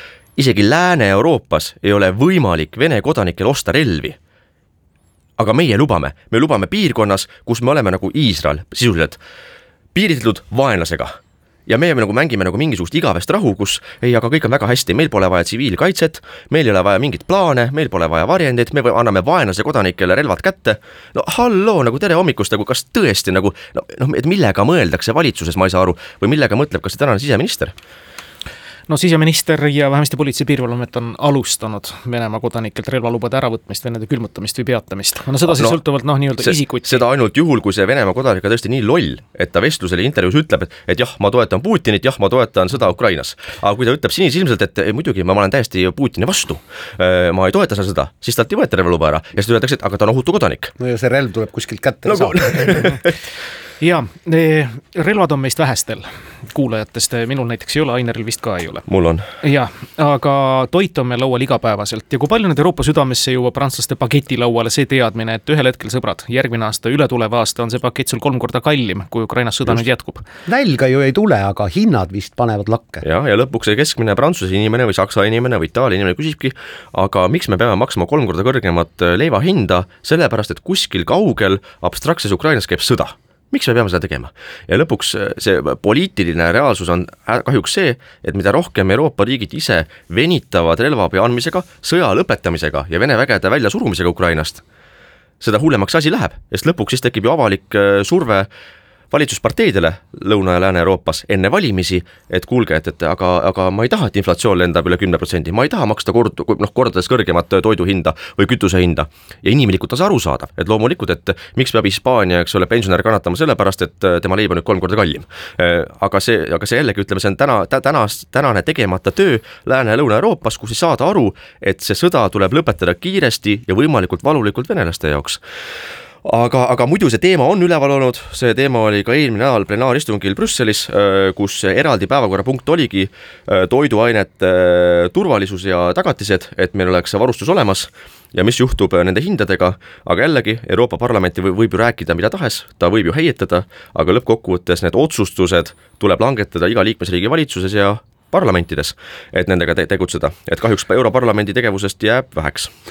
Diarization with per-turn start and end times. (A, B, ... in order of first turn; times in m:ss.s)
0:00.4-0:04.2 A
0:05.4-0:09.2 A
0:09.9-0:27.7 A
0:28.9-0:37.0 B
0:35.5-0:35.8 A
0:36.4-0:50.7 A
0:50.8-0:53.0 C
0:52.1-0:53.0 A
0:53.8-0:58.8 B
0:58.9-0:59.3 A
0:59.4-1:10.2 B
1:10.5-1:13.0 C
1:13.0-1:34.6 A
1:35.4-1:38.5 A
1:39.1-2:05.4 A
2:06.2-2:32.7 A